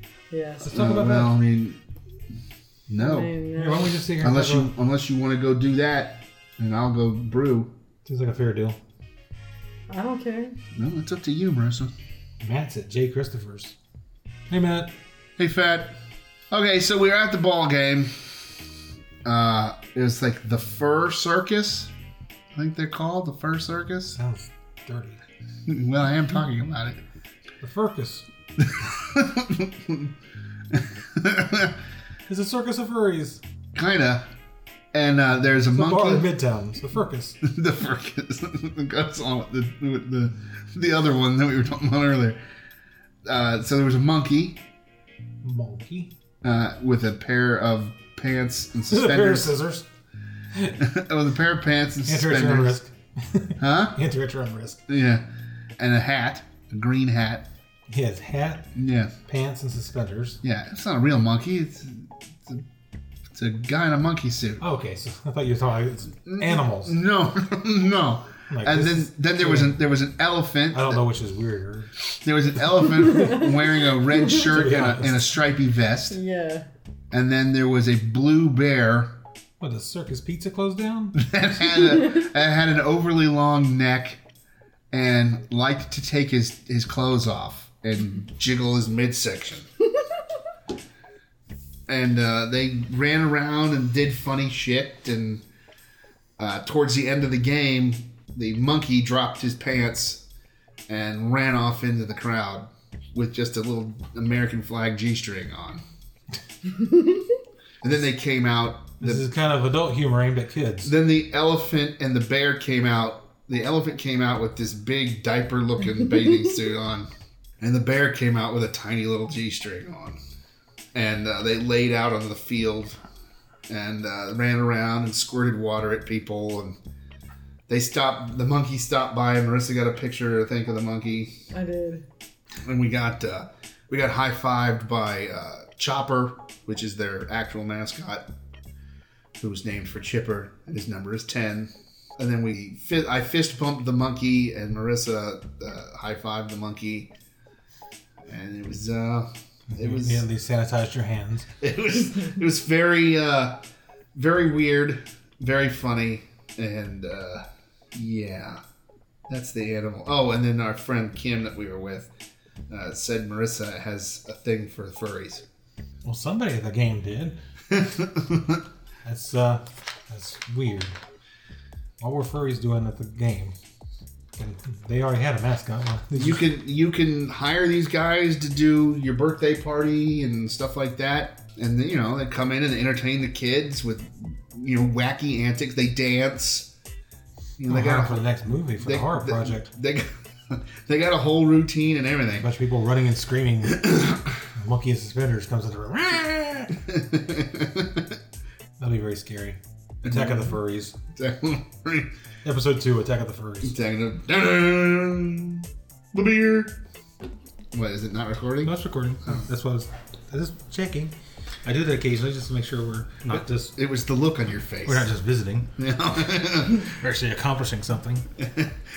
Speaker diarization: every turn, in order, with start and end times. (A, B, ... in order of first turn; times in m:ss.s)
0:00.3-0:00.8 A
0:00.6-0:01.4 B
0:00.7-0:01.8 C
0:02.9-0:03.3 C
0:03.0-0:04.0 A
0:03.6-0:04.7 B
0:04.2-0:07.7 C
0:08.0-0:08.8 B
0:09.9-0:10.6 A
0:10.8-0:11.9 C
0:12.4-0:13.7 B
0:14.5-0:14.9 B
0:15.4-0:16.0 C
0:16.5-0:18.1 C
0:19.2-0:21.9 C
0:22.5-0:24.2 C
0:24.1-0:25.2 B
0:25.7-0:27.0 C
0:27.6-0:28.3 B
0:28.6-0:30.1 C
0:30.7-0:31.8 C
0:32.3-0:33.4 B
0:33.7-0:34.3 C
0:34.9-0:36.3 C
0:35.7-0:37.4 B
0:37.4-0:42.4 C
0:43.2-0:44.6 C
0:45.4-0:46.1 B
0:46.4-0:49.5 C
0:48.9-0:49.8 B
0:50.8-0:52.8 C
0:52.0-0:54.8 B
0:53.6-0:54.0 C
0:54.9-0:55.2 C
0:55.8-0:57.5 C
0:57.9-0:58.7 B
0:58.7-0:59.2 C
0:59.2-1:00.4 B
1:00.4-1:02.6 C
1:03.3-1:04.6 C
1:04.6-1:07.0 B
1:06.2-1:11.0 C
1:08.5-1:09.8 B
1:10.7-1:11.9 B
1:12.1-1:16.2 C
1:13.0-1:14.4 A
1:14.4-1:15.3 B
1:16.1-1:16.7 A
1:17.1-1:19.1 C
1:19.6-1:21.2 B
1:21.1-1:24.2 C
1:24.9-1:29.7 C
1:31.9-1:35.4 C
1:36.4-1:40.2 C
1:40.9-1:45.8 C
1:46.7-1:47.2 A
1:47.8-1:49.2 C
1:49.0-1:50.9 B
1:50.8-1:57.1 C
1:57.6-2:00.2 C
2:00.9-2:03.0 C
2:03.7-2:06.8 C
2:07.7-2:11.3 C
2:11.5-2:12.0 A
2:12.6-2:18.2 C
2:19.4-2:27.1 C
2:28.3-2:30.2 C
2:29.7-2:31.5 B
2:31.6-2:33.6 C
2:34.1-2:38.6 C
2:39.3-2:42.1 C
2:42.7-2:45.4 C
2:46.0-2:47.4 B
2:47.7-2:48.6 C
2:49.0-2:50.9 B
2:52.0-2:53.6 B
2:54.4-2:56.4 B
2:56.2-3:06.7 C
3:07.6-3:08.2 C
3:07.7-3:09.7 B
3:08.8-3:12.5 C
3:12.4-3:16.8 B
3:16.8-3:18.1 C
3:18.8-3:20.9 B
3:20.0-3:20.6 C
3:21.1-3:22.1 C
3:22.4-3:23.7 B
3:23.6-3:26.8 C
3:27.7-3:28.7 C
3:28.6-3:31.1 B
3:31.6-3:33.7 B
3:33.3-3:35.1 C
3:34.8-3:35.7 B
3:35.8-3:36.9 C
3:36.8-3:38.3 B
3:38.4-3:38.7 C